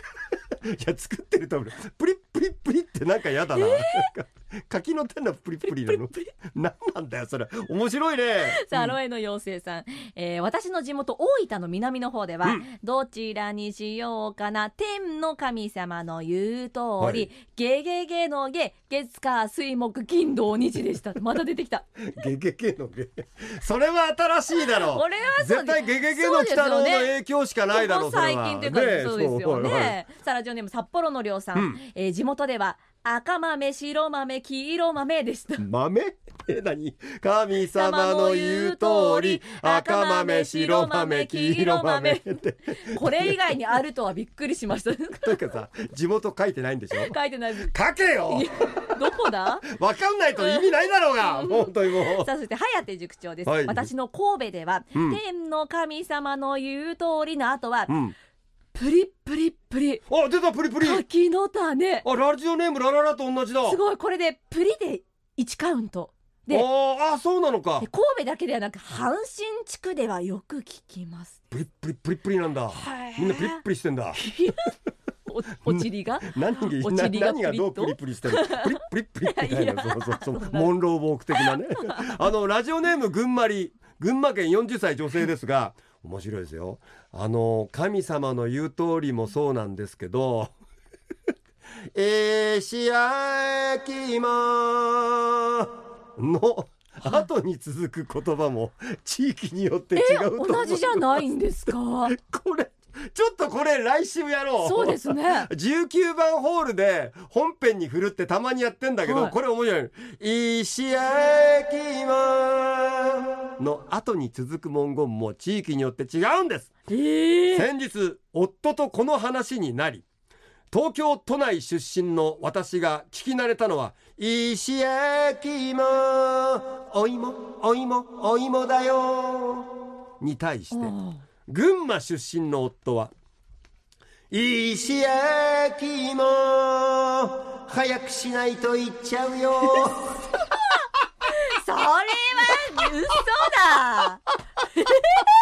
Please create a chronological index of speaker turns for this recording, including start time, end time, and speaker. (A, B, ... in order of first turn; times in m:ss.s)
0:00.6-0:09.0 A
0:03.5-0:04.1 B
0:05.7-0:06.3 B
0:08.4-0:21.8 B
0:17.0-0:17.3 A
0:22.0-0:30.0 A
0:24.7-0:27.2 B
0:27.7-0:35.6 B
0:31.6-0:31.8 A
0:35.6-0:43.4 A
0:37.7-0:45.4 B
0:45.2-0:48.9 A
0:46.9-0:49.7 B
0:49.7-0:52.3 A
0:50.4-0:57.9 B
0:53.5-0:53.9 A
0:54.9-0:55.2 A
0:57.9-0:58.2 A
0:58.7-1:00.0 B
1:00.1-1:01.0 A
1:00.8-1:02.0 B
1:02.0-1:03.8 A
1:03.6-1:06.7 B
1:06.5-1:07.9 A
1:07.8-1:11.3 B
1:11.5-1:14.2 A
1:12.7-1:13.6 B
1:14.2-1:14.7 B
1:15.2-1:20.7 B
1:15.7-1:30.5 A
1:21.3-1:22.2 B
1:31.9-1:56.7 A
1:39.9-1:42.1 B
1:44.6-1:45.5 B
1:49.1-1:49.4 B
1:56.9-1:57.7 B
1:57.5-2:00.0 A
2:00.7-2:10.9 A
2:10.7-2:11.2 B
2:11.5-2:13.1 A
2:14.3-2:20.2 A
2:21.4-2:24.2 B
2:24.8-2:25.3 B